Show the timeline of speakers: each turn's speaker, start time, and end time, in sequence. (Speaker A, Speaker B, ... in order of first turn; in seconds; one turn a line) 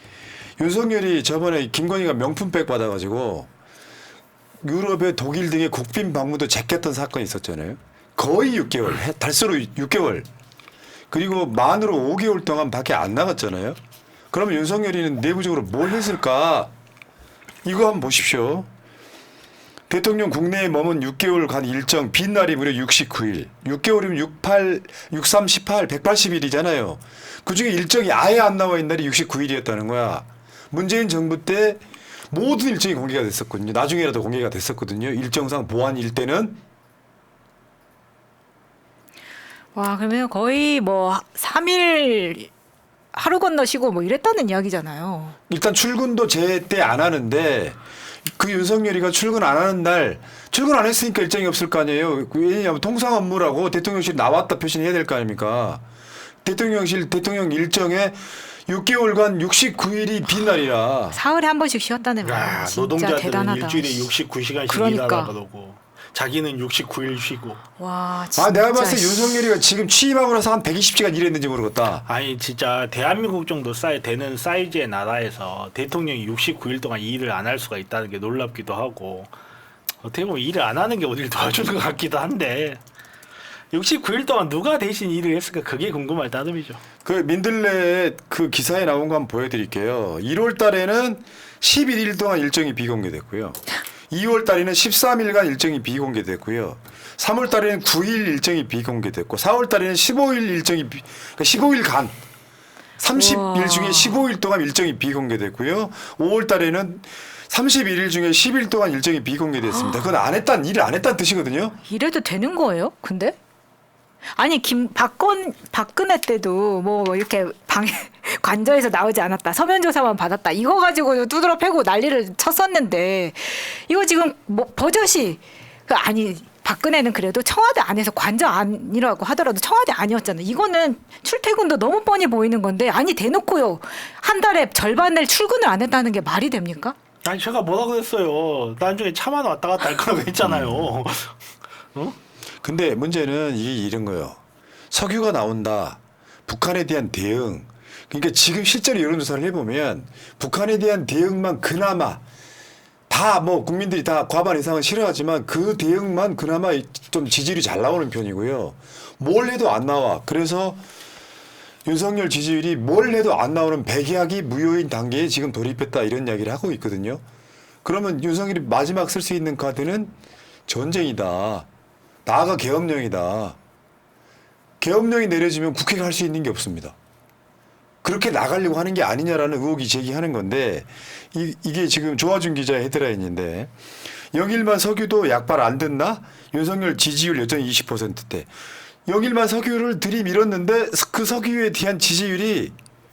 Speaker A: 0.6-3.5
Speaker A: 4.6-10.3
Speaker A: 11.1-13.8
Speaker A: 14.3-16.7
Speaker A: 17.6-18.7
Speaker A: 19.9-36.6
Speaker B: 39.8-42.5
Speaker B: 43.1-45.4
Speaker A: 45.5-55.8
Speaker A: 56.4-61.2
Speaker B: 61.1-64.1
Speaker C: 62.2-67.6
Speaker B: 64.7-65.3
Speaker B: 67.8-69.5
Speaker A: 68.4-72.1
Speaker C: 72.1-79.3
Speaker C: 80.0-82.8
Speaker C: 83.7-86.8
Speaker A: 87.0-102.2
Speaker A: 103.0-111.8
Speaker B: 103.1-104.2
Speaker B: 109.7-110.0
Speaker B: 111.8-113.4
Speaker B: 114.3-137.0
Speaker C: 137.2-141.3
Speaker A: 140.4-140.9
Speaker A: 142.6-144.4
Speaker A: 144.9-152.2
Speaker A: 153.1-160.8
Speaker A: 161.9-167.2
Speaker A: 167.8-170.1
Speaker A: 170.7-171.7
Speaker A: 172.3-173.6
Speaker A: 174.8-176.9
Speaker A: 178.0-183.7
Speaker A: 184.3-188.5
Speaker A: 189.1-192.7